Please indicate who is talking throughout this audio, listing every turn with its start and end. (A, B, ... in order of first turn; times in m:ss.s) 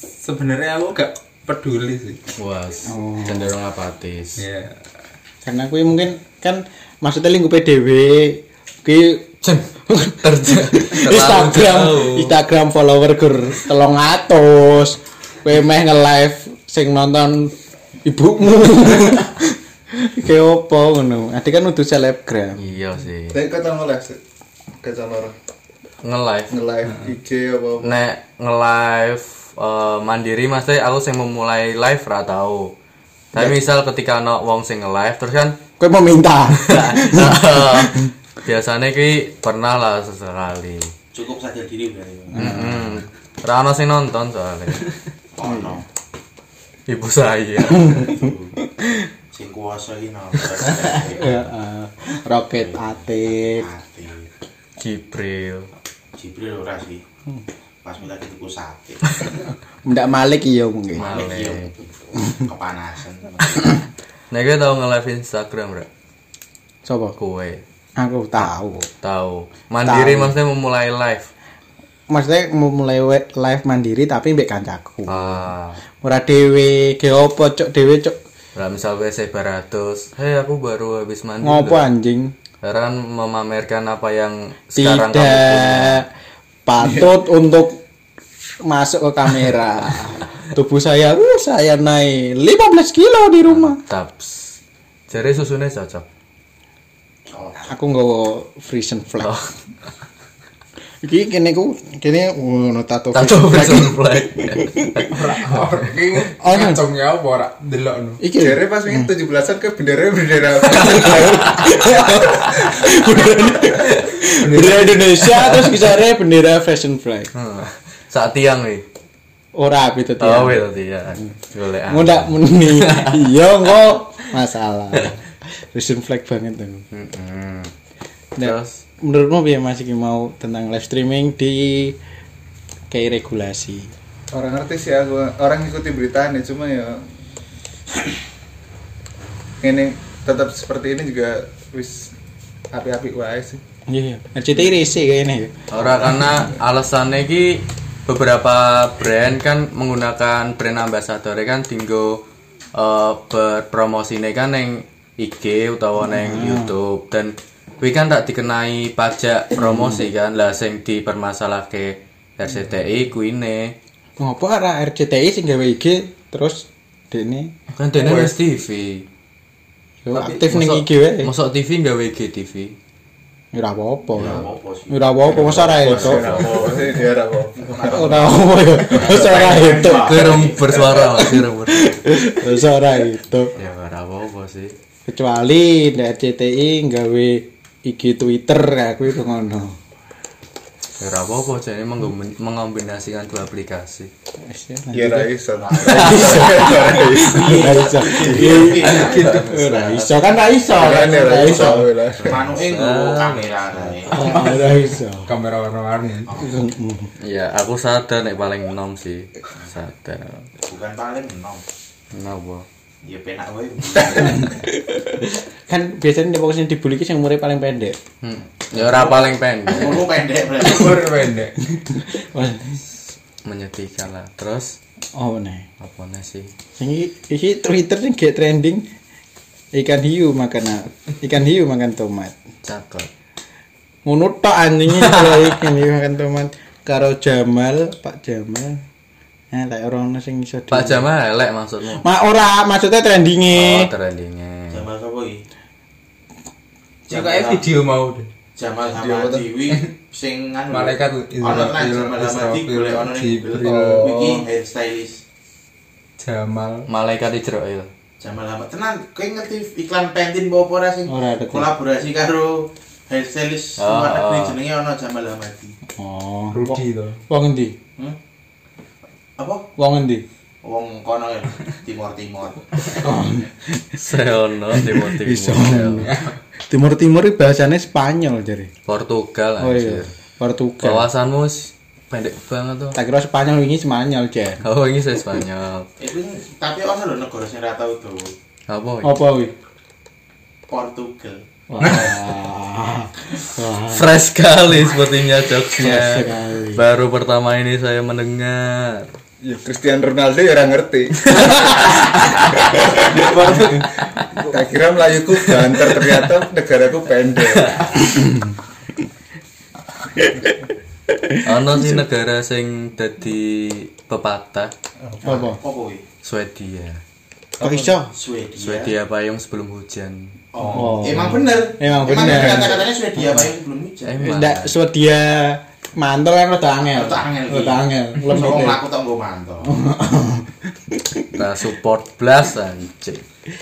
0:00.2-0:02.2 A
0:02.4-0:04.4 B
0:02.8-0:03.5 C
0:04.4-0:04.8 A
0:05.4-0:22.6 C
0:10.2-0:12.4 B
0:22.6-0:23.4 B
0:23.3-0:24.2 D
0:24.8-0:25.3 D
0:26.0-0:26.5 B
0:26.5-0:28.0 D
0:27.8-0:32.7 B
0:33.3-0:35.6 B
0:35.8-0:38.1 C
0:36.5-0:40.9 B
0:41.1-0:42.5 E
0:42.3-0:43.0 C
0:42.4-0:44.8 B
0:45.4-0:45.8 E
0:45.4-0:45.8 C
0:46.9-0:48.2 B
0:47.8-0:48.5 E
0:49.3-0:51.4 E
0:51.1-0:53.7 C
0:52.6-0:54.3 E
0:54.8-0:55.7 B
0:56.2-0:57.0 E
0:57.8-0:59.4 E
0:59.8-1:01.1 C
1:01.0-1:01.7 B
1:01.0-1:03.8 E
1:04.3-1:05.9 B
1:06.8-1:07.2 C
1:07.2-1:07.6 B
1:08.0-1:08.9 C
1:09.0-1:11.3 B
1:09.8-1:10.3 C
1:12.1-1:15.4 C
1:15.1-1:15.8 B
1:16.0-1:18.2 C
1:18.5-1:21.9 B
1:21.4-1:22.3 C
1:22.6-1:26.0 B
1:24.7-1:26.1 C
1:26.6-1:27.8 C
1:28.6-1:33.8 C
1:33.5-1:34.6 B
1:35.1-1:36.0 B
1:37.3-1:37.7 E
1:37.6-1:39.3 C
1:39.2-1:39.5 B
1:41.0-1:45.1 C
1:43.1-1:45.8 B
1:45.1-1:48.2 A
1:46.4-1:46.8 C
1:48.2-1:49.1 C
1:48.4-1:51.6 D
1:50.8-1:57.3 C
1:51.1-1:52.7 B
1:54.4-1:55.0 A
1:55.2-1:55.9 B
1:57.3-1:58.8 B
1:59.6-2:01.4 C
2:00.2-2:03.4 B
2:01.9-2:05.2 C
2:05.7-2:06.8 C
2:06.9-2:07.7 B
2:08.4-2:12.0 C
2:08.4-2:08.8 B
2:12.9-2:13.9 C
2:14.3-2:17.1 D
2:19.6-2:22.1 D
2:22.7-2:23.6 D
2:23.9-2:25.5 C
2:25.7-2:43.8 B
2:36.0-2:36.7 C
2:39.6-2:40.0 C
2:44.2-2:47.5 C
2:47.7-2:49.1 B
2:48.0-2:48.3 D
2:50.0-2:51.3 C
2:50.1-2:52.8 B
2:53.5-2:56.5 C
2:54.1-2:56.9 E
2:54.2-2:54.4 B
2:55.3-2:56.8 B
2:55.8-2:58.2 D
2:57.6-3:00.8 E
2:57.8-3:00.4 C
2:58.9-2:59.4 D
2:59.9-3:02.3 B
3:01.0-3:03.5 C
3:03.6-3:04.8 B
3:05.1-3:09.8 C
3:11.0-3:14.1 B
3:14.5-3:15.3 C
3:14.9-3:17.8 D
3:15.5-3:21.7 E
3:15.8-3:21.9 C
3:16.1-3:16.6 B
3:18.5-3:19.6 A
3:19.2-3:19.9 B
3:20.7-3:22.5 D
3:22.2-3:24.4 E
3:22.3-3:23.9 B
3:24.1-3:25.3 C
3:25.2-3:26.3 A
3:26.3-3:27.1 C
3:27.2-3:30.5 B
3:30.6-3:31.6 E
3:32.1-3:32.6 B
3:33.0-3:34.6 E
3:34.3-3:38.0 C
3:38.2-3:40.1 B
3:38.7-3:41.2 E
3:40.6-3:41.6 A
3:41.8-3:42.8 C
3:43.4-3:44.8 B
3:45.1-3:45.7 C
3:45.8-3:46.5 B
3:46.8-3:48.9 C
3:49.7-3:52.3 C
3:52.6-3:53.1 B
3:54.0-3:58.8 C
3:59.5-4:01.0 C
4:00.7-4:02.0 B
4:02.0-4:03.9 C
4:03.5-4:04.8 B
4:04.7-4:05.4 E
4:07.1-4:08.3 A
4:07.1-4:07.7 E
4:08.6-4:15.2 E
4:08.9-4:09.5 D
4:10.7-4:14.2 A
4:13.6-4:14.4 D
4:16.2-4:16.9 A
4:16.9-4:17.9 B
4:18.2-4:25.8 E
4:21.1-4:21.7 C
4:23.8-4:24.6 B
4:26.0-4:27.7 C
4:26.5-4:27.2 A
4:29.4-4:29.6 E
4:29.8-4:30.2 C
4:30.6-4:33.0 E
4:33.0-4:34.0 C
4:34.0-4:36.1 B
4:34.7-4:36.1 C
4:36.0-4:36.4 A
4:36.7-4:38.7 C
4:38.8-4:40.1 B
4:39.6-4:41.0 C
4:40.8-4:43.0 B
4:42.9-4:44.6 C
4:44.6-4:45.9 B
4:46.0-4:48.3 E
4:48.7-4:49.2 B
4:49.0-4:49.5 C
4:50.7-4:51.4 E
4:51.7-4:54.1 C
4:51.8-4:52.1 A
4:53.9-4:59.1 B
4:55.8-4:56.8 C
4:59.4-5:02.0 D
5:01.3-5:02.9 B
5:02.7-5:03.5 D
5:03.2-5:03.8 A
5:04.3-5:07.9 D
5:05.8-5:06.1 B
5:08.0-5:08.4 C
5:11.2-5:12.0 C
5:11.4-5:14.7 B
5:15.1-5:15.5 D
5:15.2-5:15.6 C
5:15.3-5:16.0 E
5:16.2-5:17.0 B
5:17.6-5:18.9 E
5:17.6-5:18.1 C
5:18.6-5:20.4 B
5:20.5-5:24.2 E
5:20.7-5:22.8 C
5:22.0-5:22.8 D
5:24.0-5:24.7 B
5:24.2-5:28.8 C
5:26.9-5:29.7 E
5:29.6-5:31.4 C
5:31.3-5:33.2 B